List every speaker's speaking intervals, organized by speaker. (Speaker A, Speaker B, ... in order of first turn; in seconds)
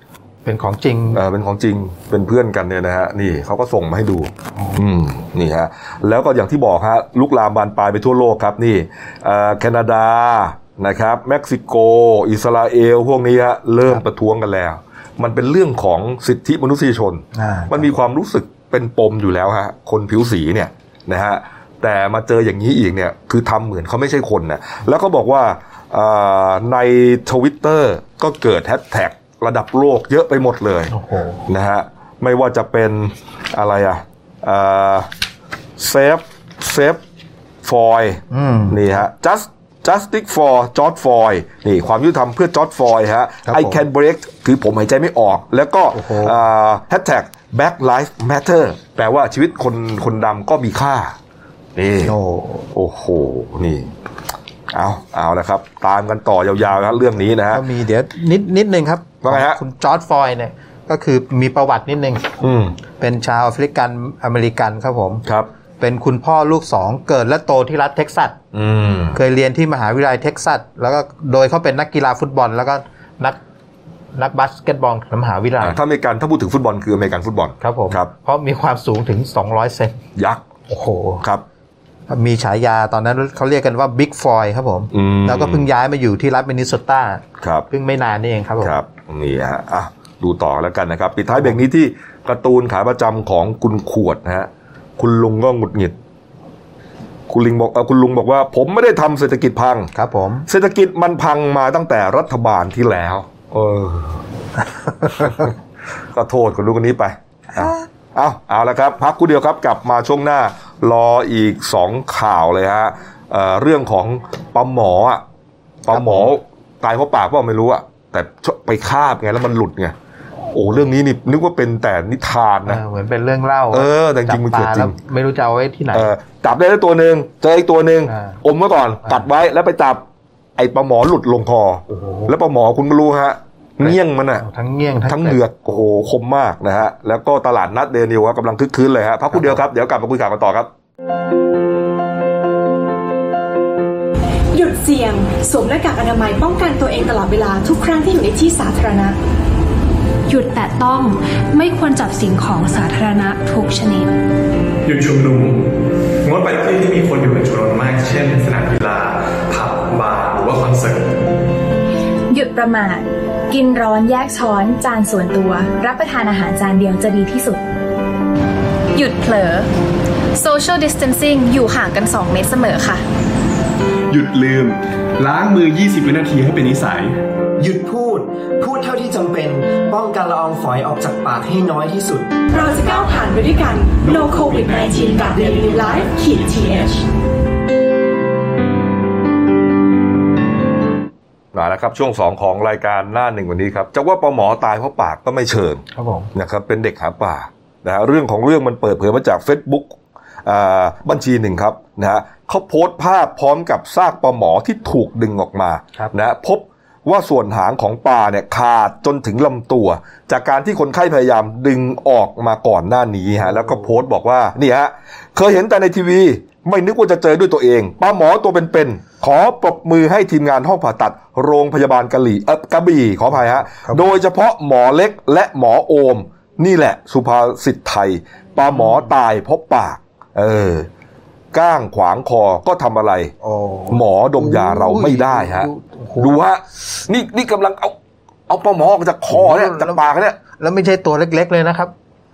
Speaker A: 0.4-1.2, 17.3-17.9, 30.9-31.4, 38.3-38.9, 43.5-43.8, 45.9-46.4, 52.0-52.7, 57.5-62.3, 63.0-65.2, 65.8-68.3, 69.1-73.4, 74.1-75.8, 77.6-80.0, 80.7-81.2, 82.1-88.8, 99.9-100.5, 105.0-105.5, 115.9-116.3, 122.7-126.1, 128.1-128.4, 131.9-132.3, 133.8-135.4, 139.3-139.6, 195.9-196.3, 213.4-213.9, 223.3-224.1, 228.7-229.0, 233.4-236.3, 239.3-241.9
Speaker B: 1.1-30.9, 31.5-35.1, 35.8-37.0, 37.6-51.1, 51.8-52.1, 52.7-53.9, 54.7-57.6, 59.2-59.6, 62.4-62.8, 68.5-69.2, 75.6-78.1, 80.2-80.4, 84.9-85.7, 87.4-87.7, 88.6-96.0, 97.3-99.9, 100.5-104.2, 105.2-105.5, 106.1-115.2, 115.8-119.9, 120.5-122.8, 123.7-125.0, 125.9-130.0, 130.6-134.4, 135.1-140.7, 191.5-230.9, 231.5-233.3, 233.9-237.9, 238.5-240.4
Speaker C: 144.5-149.2, 182.5-187.0
Speaker D: 150.3-154.1
Speaker E: 154.8-155.6, 156.2-161.1, 174.1-177.2, 184.0-185.0
Speaker F: 162.3-167.6, 168.9-169.7, 170.3-173.0
Speaker G: 177.6-182.5